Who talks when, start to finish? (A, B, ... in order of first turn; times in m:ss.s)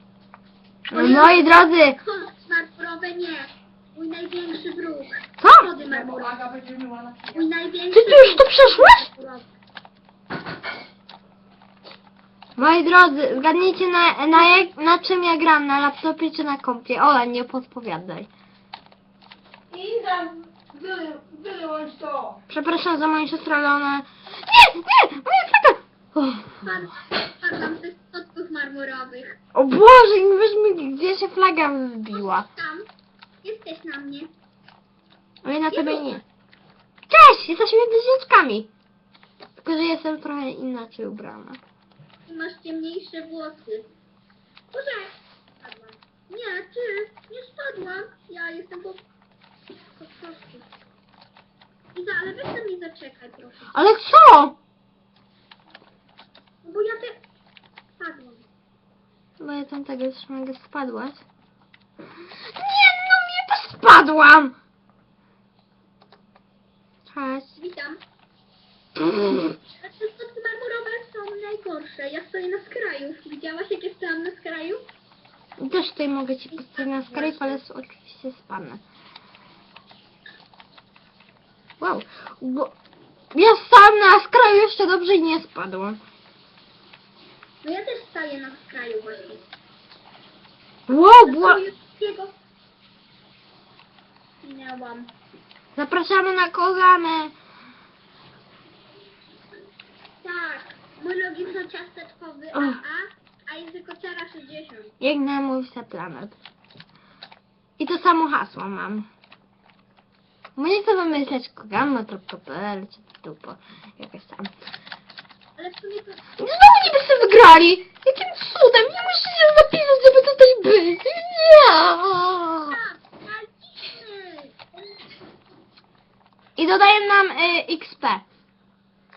0:00.9-0:02.0 A
0:00.9-0:01.5 B
0:02.0-0:06.4 B
0:05.4-0:05.7 A
0:06.5-0:07.2 C
0:07.2-0:09.5 B
0:07.9-0:09.0 A
0:12.6-0:18.3 A
0:19.7-0:22.4 C
0:22.5-0:26.6 A
0:26.6-0:29.4 B
0:29.5-0:32.4 A
0:32.1-0:32.9 B
0:33.4-0:34.3 B
0:35.4-0:36.2 A
0:35.7-0:36.1 B
0:37.1-0:38.7 A
0:39.6-0:41.6 A
0:42.2-0:43.9 B
0:44.7-0:49.0 B
0:50.0-0:50.7 B
0:51.9-0:53.8 B
0:53.7-0:54.6 A
0:56.6-0:57.2 B
0:58.0-0:58.4 B
0:59.4-1:01.2 A
1:02.5-1:04.5 A
1:07.1-1:07.6 A
1:07.6-1:08.0 B
1:09.8-1:14.8 B
1:15.6-1:18.8 A
1:16.5-1:17.6 B
1:21.8-1:22.7 A
1:23.3-1:26.0 A
1:27.6-1:29.4 B
1:30.9-1:31.6 A
1:31.2-1:32.3 B
1:34.4-1:35.1 B
1:35.7-1:37.3 A
1:40.2-1:44.9 B
1:42.5-1:42.8 A
1:45.0-1:46.4 A
1:47.8-1:49.1 A
1:50.6-1:54.5 A
1:55.6-1:56.2 B
1:56.4-2:02.8 A
2:02.7-2:04.6 B
2:06.6-2:08.2 A